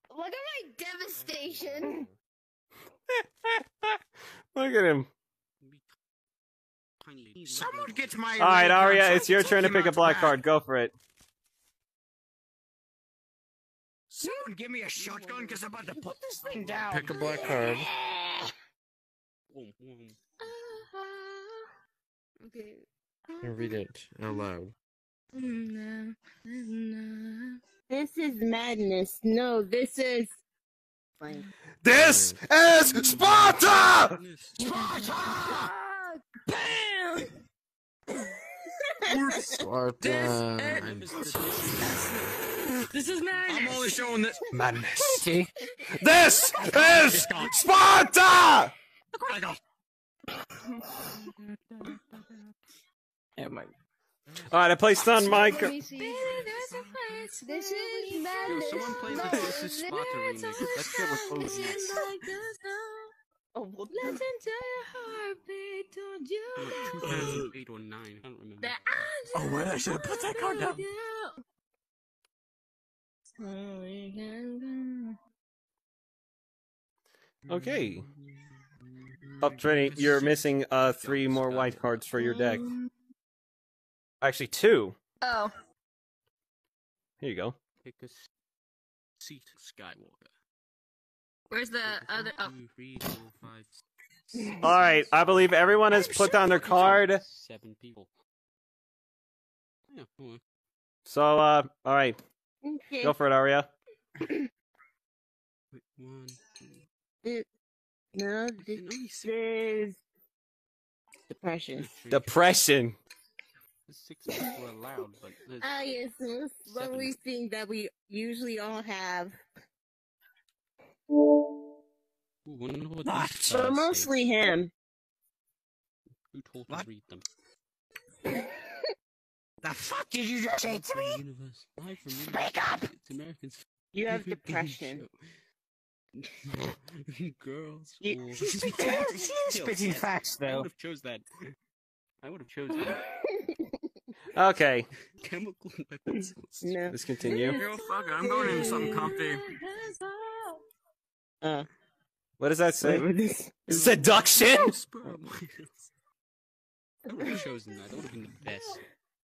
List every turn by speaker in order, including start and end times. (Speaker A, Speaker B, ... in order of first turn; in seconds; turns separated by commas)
Speaker A: 0.1-2.1, Speaker B: 1.5-2.1, Speaker C: 3.1-4.0, Speaker C: 4.5-5.1, Speaker D: 5.6-5.9, Speaker D: 7.0-8.3, Speaker E: 7.5-10.4, Speaker C: 8.4-10.9, Speaker E: 14.1-17.3, Speaker D: 14.9-17.2, Speaker B: 16.9-17.9, Speaker F: 17.1-17.8, Speaker D: 19.5-20.1, Speaker F: 20.4-21.7, Speaker A: 22.4-22.8, Speaker F: 23.4-23.7, Speaker B: 23.4-24.7, Speaker F: 25.3-27.6, Speaker G: 27.9-30.4, Speaker C: 31.8-34.2, Speaker B: 31.9-32.4, Speaker B: 33.1-33.6, Speaker D: 33.3-34.6, Speaker E: 34.6-35.7, Speaker F: 34.6-35.4, Speaker A: 35.5-36.2, Speaker F: 36.5-37.3, Speaker G: 39.1-39.6, Speaker B: 39.2-41.2, Speaker F: 40.0-40.9, Speaker D: 40.7-42.4, Speaker F: 42.9-43.9, Speaker E: 43.5-45.5, Speaker C: 44.5-45.3, Speaker C: 45.9-48.7, Speaker E: 46.6-47.7, Speaker E: 49.1-49.6, Speaker D: 51.3-52.3, Speaker D: 54.3-55.7, Speaker C: 54.5-55.7, Speaker F: 55.3-59.6, Speaker A: 55.5-56.4, Speaker D: 56.2-57.4, Speaker A: 57.4-60.8, Speaker D: 58.5-62.0, Speaker F: 60.6-63.1, Speaker G: 63.5-64.2, Speaker F: 63.9-67.0, Speaker D: 66.5-68.8, Speaker E: 67.1-67.5, Speaker F: 68.6-71.4, Speaker E: 69.3-70.8, Speaker F: 73.4-75.2, Speaker D: 77.5-78.5, Speaker C: 77.5-78.0, Speaker D: 79.3-82.2, Speaker C: 79.4-82.6, Speaker F: 82.2-82.9, Speaker C: 84.2-85.0, Speaker F: 85.2-85.5, Speaker C: 87.2-87.5, Speaker D: 87.8-88.3, Speaker D: 89.2-90.3, Speaker F: 91.5-92.5, Speaker D: 91.8-93.8, Speaker D: 94.3-98.1, Speaker C: 94.6-97.2, Speaker D: 99.9-100.4, Speaker C: 101.0-102.2, Speaker G: 102.6-103.2, Speaker C: 103.0-103.7, Speaker D: 105.7-106.8, Speaker G: 108.1-110.0, Speaker D: 108.6-109.4, Speaker G: 111.3-112.0, Speaker D: 111.7-112.4, Speaker C: 112.1-113.0, Speaker D: 113.9-115.8, Speaker G: 115.6-119.3, Speaker D: 116.7-117.1, Speaker D: 122.4-124.2, Speaker E: 123.0-123.6, Speaker G: 123.4-124.7, Speaker D: 126.3-127.2, Speaker E: 129.6-131.2, Speaker D: 130.7-135.1, Speaker E: 132.1-132.9, Speaker G: 133.9-135.0, Speaker D: 136.4-141.2, Speaker G: 138.0-139.3, Speaker E: 138.8-140.7, Speaker D: 142.2-143.0, Speaker C: 144.3-144.9, Speaker D: 145.2-146.9, Speaker G: 146.1-146.9, Speaker C: 146.9-147.6, Speaker F: 147.2-150.6, Speaker D: 147.6-149.0, Speaker B: 147.7-149.2, Speaker G: 148.2-149.2, Speaker G: 151.4-151.7, Speaker C: 152.4-153.1, Speaker G: 152.8-153.7, Speaker C: 153.7-154.8, Speaker D: 153.7-155.9, Speaker D: 157.1-158.8, Speaker G: 157.2-157.4